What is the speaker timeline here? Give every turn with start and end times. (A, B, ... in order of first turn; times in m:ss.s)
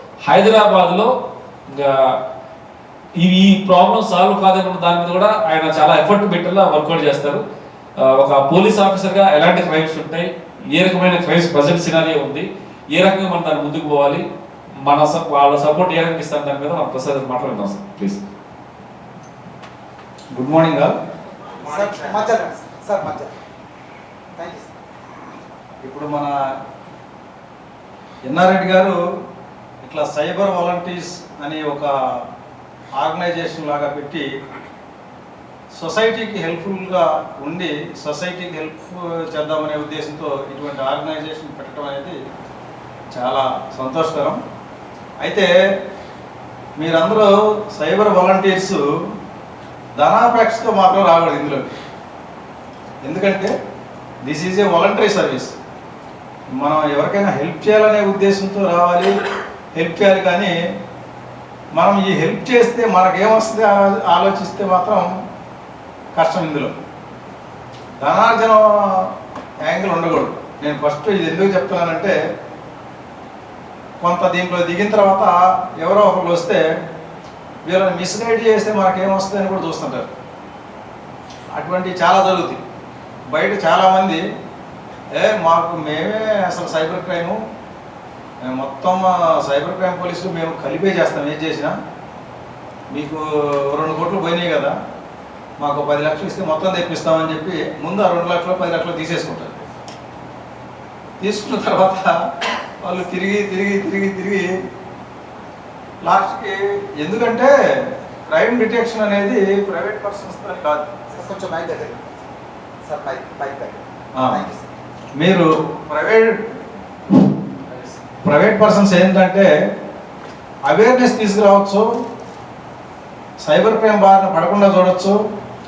0:00.2-0:01.1 A
0:01.7-0:02.1 A
0:03.2-0:07.4 A
0:08.0-0:14.2 A
0:14.8-0:18.2 A
0:20.3-0:20.9 B
0:21.6-0:23.3 C
0:24.4-0:24.7 C
0:25.8-0:26.3 B
0:28.2-0:29.0 B
0:29.8-0:31.9 B
0:33.0-0:34.2 B
0:35.7-0:42.2 B
0:43.1-0:44.4 B
0:45.2-0:45.5 B
0:46.8-0:48.8 B
0:49.9-0:51.6 B
0:53.0-0:53.5 B
0:54.2-0:55.5 B
0:56.6-0:59.1 B
0:59.7-1:00.5 B
1:01.7-1:05.1 B
1:06.1-1:06.7 B
1:08.0-1:09.1 B
1:09.6-1:12.2 B
1:14.0-1:16.6 B
1:17.6-1:20.1 B
1:21.5-1:22.6 B
1:23.3-1:24.2 B
1:25.1-1:27.4 B
1:28.4-1:31.7 B
1:32.9-1:34.7 B
1:35.6-1:39.5 B
1:41.2-1:42.1 B
1:42.8-1:44.5 B
1:46.0-1:47.5 B
1:48.3-1:50.9 B
1:51.1-1:52.1 C
1:52.8-1:54.7 C
1:55.2-1:56.3 B
1:58.2-1:59.5 B
2:00.6-2:01.8 B
2:03.4-2:05.2 B